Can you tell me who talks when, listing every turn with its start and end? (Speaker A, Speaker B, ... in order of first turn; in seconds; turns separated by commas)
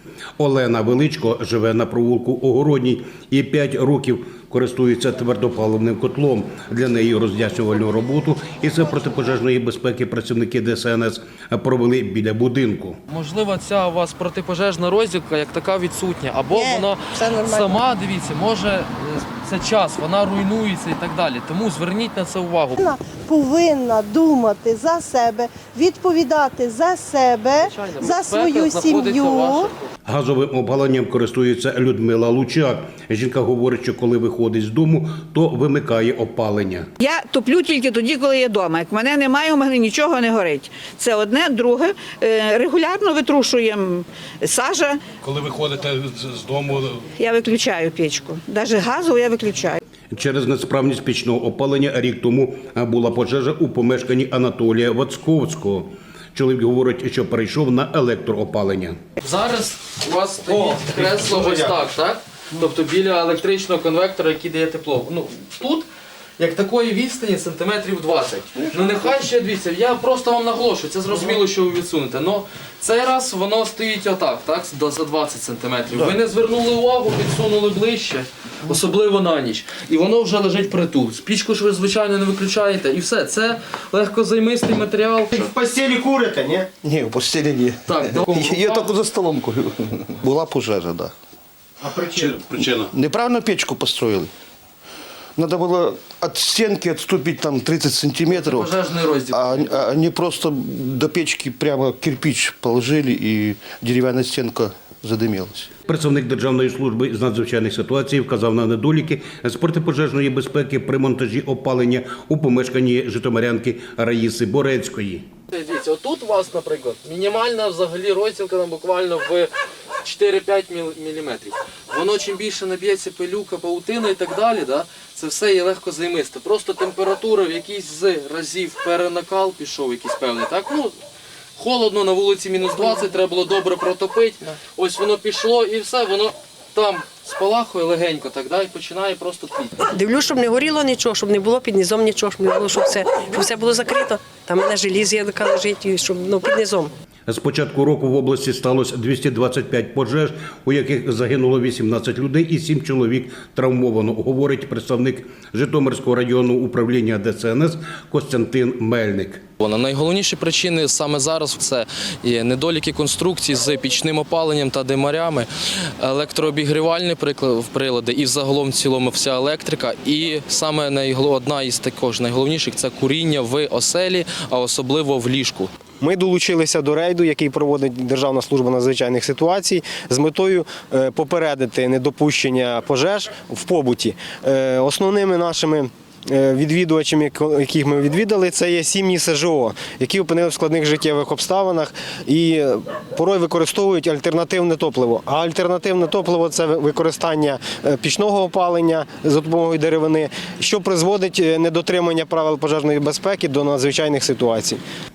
Speaker A: 0.4-13.0, Speaker B: 13.1-22.9, Speaker C: 16.6-17.7, Speaker C: 22.8-29.6, Speaker B: 27.6-29.9, Speaker A: 30.1-36.9, Speaker D: 37.0-45.0, Speaker A: 45.2-47.1, Speaker D: 47.2-49.8, Speaker A: 50.1-59.0, Speaker B: 59.2-65.9, Speaker E: 60.5-61.7, Speaker B: 66.4-85.5, Speaker E: 85.3-86.7, Speaker F: 86.8-91.1, Speaker B: 87.9-88.9, Speaker E: 91.8-92.5, Speaker F: 92.5-94.3, Speaker F: 95.4-98.8, Speaker B: 98.3-99.8, Speaker F: 99.3-105.7, Speaker A: 105.9-115.3, Speaker B: 115.5-119.5, Speaker B: 120.0-131.0, Speaker B: 131.6-139.8, Speaker G: 139.9-146.9, Speaker A: 147.3-159.4, Speaker B: 159.6-165.5, Speaker B: 166.0-175.7, Speaker E: 176.0-204.8